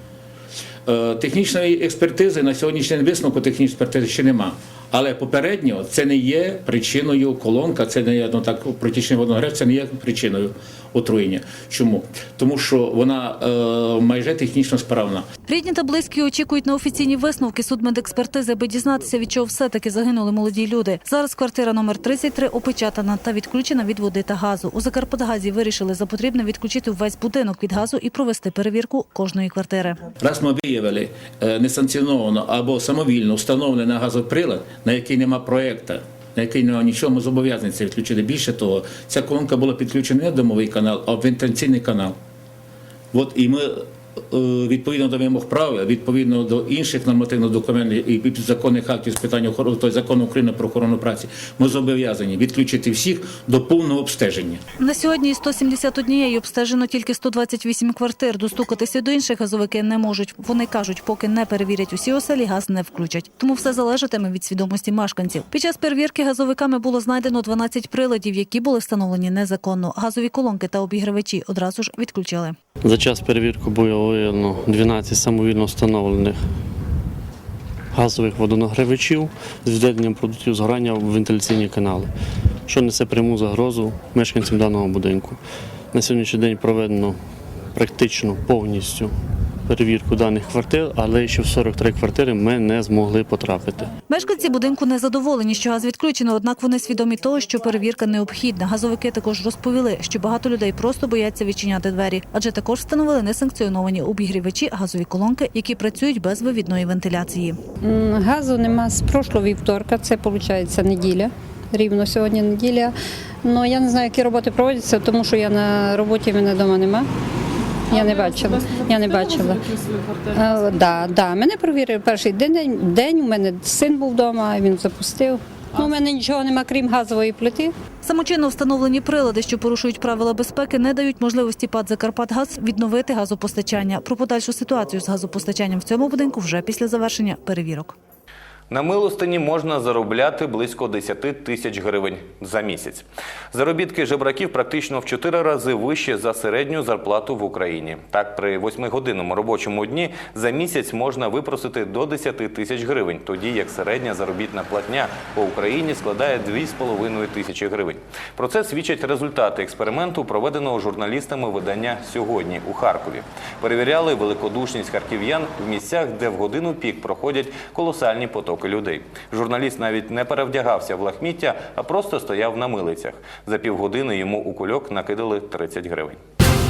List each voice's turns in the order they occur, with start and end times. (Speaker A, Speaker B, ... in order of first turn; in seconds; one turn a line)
Speaker A: 0.8-15.3
Speaker B: 15.5-30.0
Speaker A: 30.2-42.1
Speaker A: 43.1-54.6
Speaker B: 54.8-72.5
Speaker C: 72.8-76.6
Speaker C: 77.9-82.1
Speaker C: 82.7-87.2
Speaker C: 87.7-93.9
Speaker B: 94.1-107.6
Speaker D: 107.8-117.1
Speaker D: 117.9-119.7
Speaker D: 120.3-127.7
Speaker B: 128.0-137.9
Speaker E: 138.7-176.2